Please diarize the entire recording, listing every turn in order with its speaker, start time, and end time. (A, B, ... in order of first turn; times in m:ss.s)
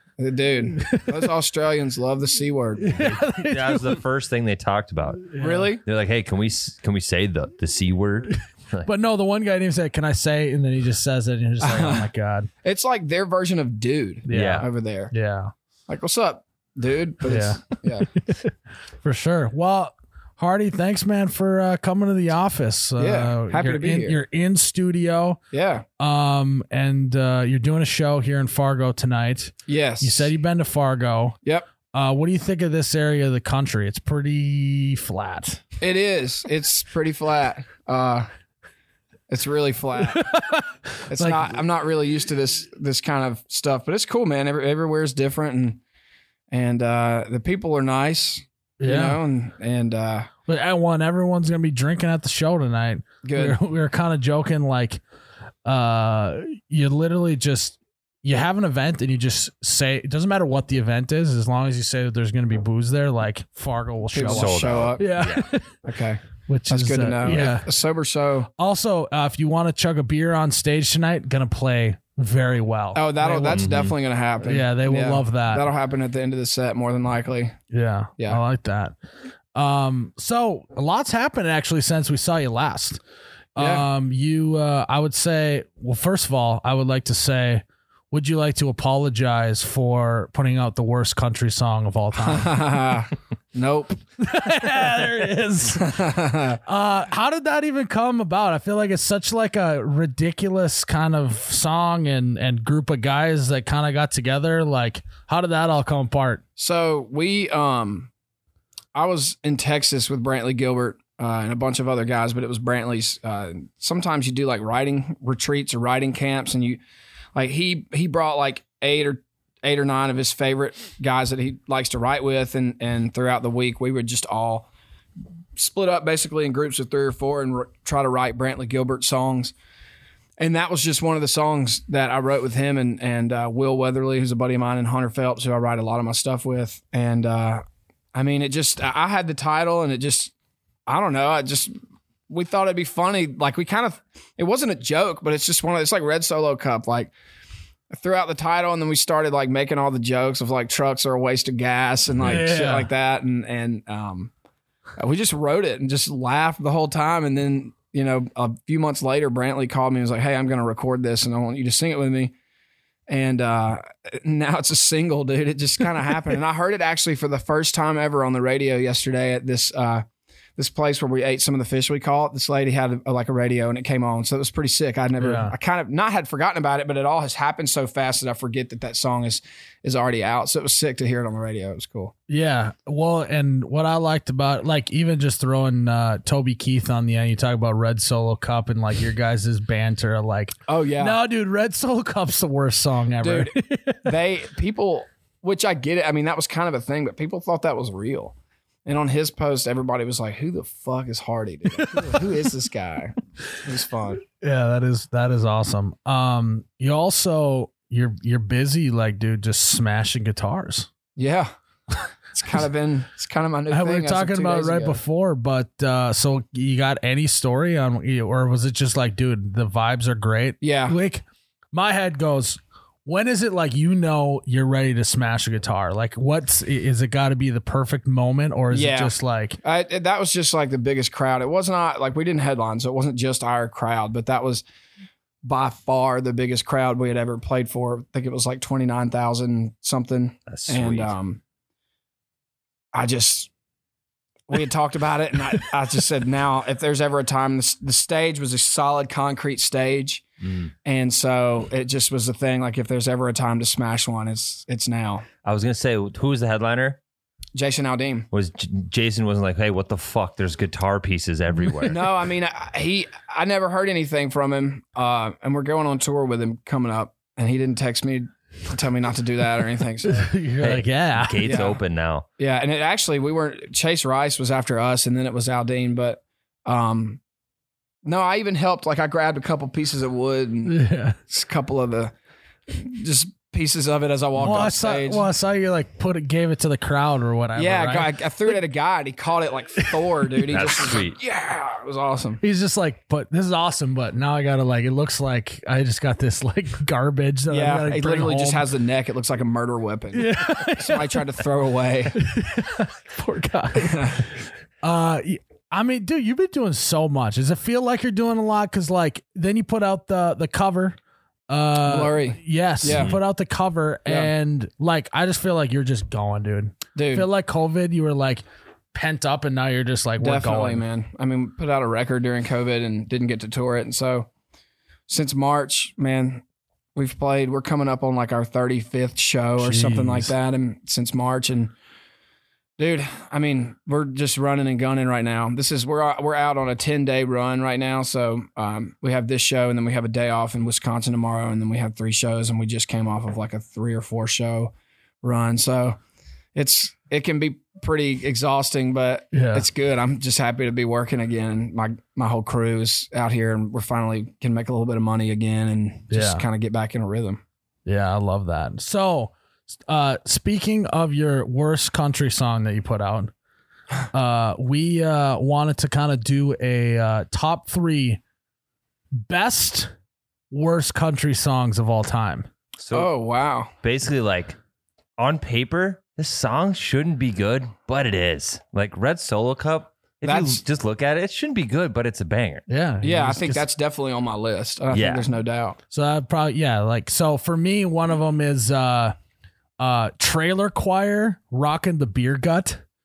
0:00.2-0:03.0 A
0:00.8-0:01.2 B
0:02.8-0:04.0 B
0:03.0-0:08.9 C
0:05.3-0:05.7 B
0:05.4-0:05.8 A
0:08.8-0:12.5 B
0:11.6-0:12.1 A
0:12.6-0:15.1 A
0:14.3-0:15.5 B
0:14.3-0:14.7 C
0:15.9-0:18.1 A
0:17.3-0:18.5 B
0:19.0-0:25.4 B
0:23.0-0:24.2 A
0:25.5-0:25.8 A
0:26.0-0:31.4 B
0:29.7-0:30.3 A
0:31.9-0:35.6 B
0:35.8-0:38.3 A
0:39.3-0:40.3 A
0:40.0-0:41.6 B
0:41.1-0:45.8 A
0:46.5-0:50.3 A
0:48.8-0:49.2 B
0:50.5-0:55.0 B
0:53.2-0:53.6 A
0:55.6-1:05.8 B
1:04.1-1:05.1 A
1:04.2-1:05.5 C
1:05.8-1:08.5 A
1:06.5-1:07.7 B
1:08.6-1:13.7 B
1:13.0-1:17.6 A
1:13.5-1:14.0 C
1:14.4-1:15.7 B
1:17.7-1:18.9 B
1:19.6-1:23.0 B
1:23.6-1:32.6 B
1:23.6-1:23.9 A
1:32.2-1:34.0 A
1:34.2-1:36.0 B
1:35.8-1:36.6 A
1:36.6-1:46.4 B
1:46.6-1:48.1 A
1:49.0-1:56.8 A
1:57.4-2:04.7 A
2:05.6-2:09.5 A
2:10.4-2:17.6 A
2:18.1-2:20.3 A
2:20.9-2:21.7 A
2:22.3-2:27.1 A
2:27.9-2:34.3 A
2:32.2-2:32.9 B
2:35.0-2:42.3 A
2:43.1-2:50.0 A
2:50.6-3:02.1 A
2:55.2-2:55.5 B
3:02.3-3:14.1 B
3:10.7-3:11.2 A
3:13.2-3:18.4 A
3:18.9-3:24.2 A
3:21.8-3:22.2 B
3:24.4-3:30.9 B
3:31.2-3:31.5 A
3:32.3-3:35.0 A
3:33.7-3:49.6 B
3:40.6-3:41.0 A
3:48.7-3:54.6 A
3:55.4-4:01.4 A
4:00.5-4:01.2 C
4:02.9-4:03.5 A
4:04.5-4:10.2 A
4:10.4-4:10.7 C
4:10.8-4:15.3 A
4:15.4-4:17.0 C
4:17.6-4:18.3 A
4:18.3-4:22.0 C
4:21.9-4:30.3 A
4:30.1-4:31.6 B
4:30.6-4:32.2 C
4:31.4-4:31.8 A
4:32.4-4:37.2 A
4:38.0-4:40.8 A
4:40.7-4:41.2 B
4:41.3-4:42.1 A
4:42.7-4:45.3 A
4:44.4-4:48.6 B
4:47.6-4:52.4 A
4:49.8-4:50.3 B
4:50.5-4:51.2 C
4:52.4-4:58.7 B
4:57.5-5:02.2 A
5:00.1-5:01.2 B
5:02.2-5:04.3 B
5:03.8-5:04.3 A
5:04.8-5:11.0 B
5:11.5-5:20.8 B
5:11.8-5:13.2 A
5:12.9-5:13.2 C
5:17.0-5:17.3 A
5:20.2-5:24.3 A
5:25.1-5:26.4 A
5:27.0-5:31.7 A
5:29.6-5:30.3 B
5:32.8-5:44.7 A
5:45.2-5:46.0 A
5:46.6-5:57.4 A
5:49.3-5:49.7 B
5:56.1-5:56.4 B
5:57.9-5:59.3 B
5:59.9-6:03.3 B
6:04.1-6:08.2 B
6:09.2-6:09.9 B
6:10.5-6:12.5 B
6:12.8-6:13.1 C
6:12.9-6:13.7 A
6:13.8-6:14.6 C
6:15.2-6:22.6 C
6:20.2-6:20.6 A
6:22.7-6:23.6 B
6:23.0-6:25.8 A
6:24.9-6:25.3 C
6:25.9-6:29.2 B
6:29.8-6:32.8 B